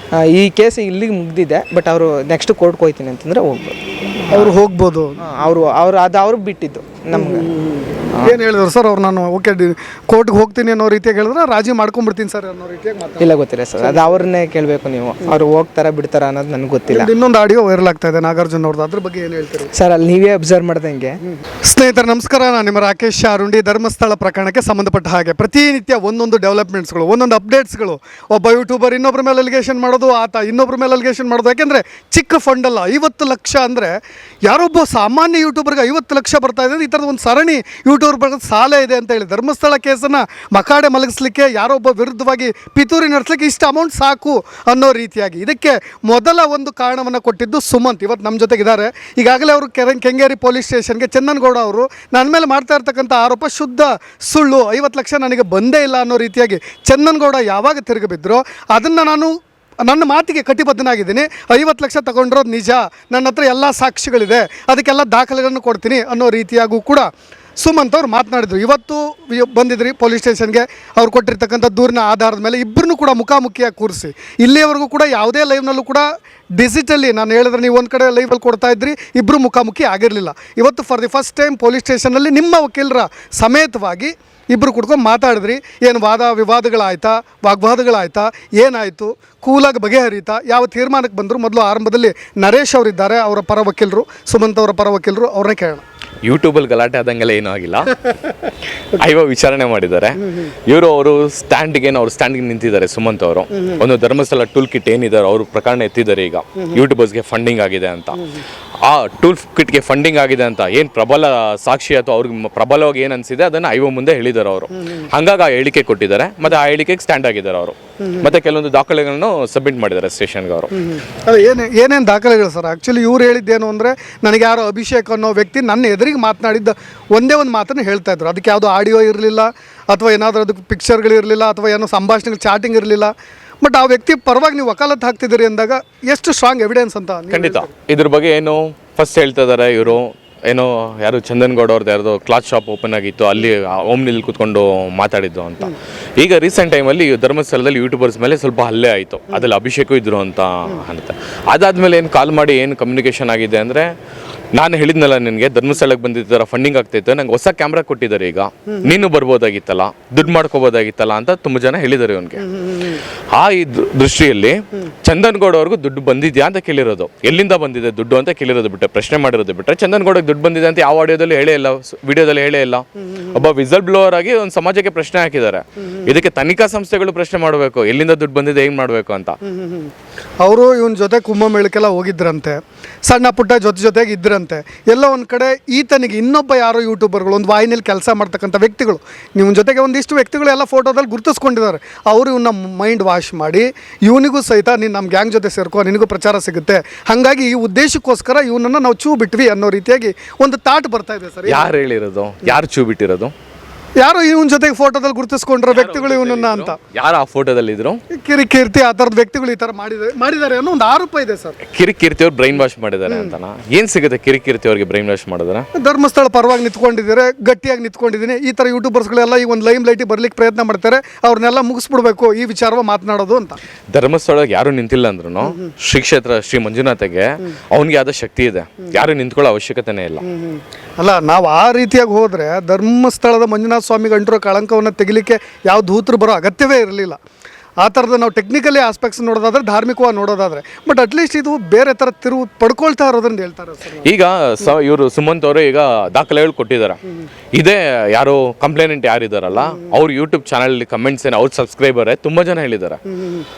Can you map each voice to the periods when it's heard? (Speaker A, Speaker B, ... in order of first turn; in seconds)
Speaker A: 0.1-3.8, 5.2-7.5, 13.2-17.1, 19.7-21.2
Speaker B: 4.3-5.2, 7.1-14.3, 16.9-19.7, 21.2-67.1, 67.6-95.8, 103.5-103.8, 118.0-118.3, 120.7-137.7, 162.4-163.0, 179.4-179.9, 180.4-201.7, 204.0-206.8, 208.1-211.6, 213.1-213.3, 215.7-223.6, 230.2-237.2, 237.8-244.1, 253.1-253.4
Speaker C: 96.2-98.0, 98.9-108.2, 108.8-120.7, 137.3-153.9, 154.5-162.4, 163.3-179.4, 201.4-203.3, 205.7-208.0, 211.7-215.7, 223.9-230.2, 244.0-247.0, 247.5-253.0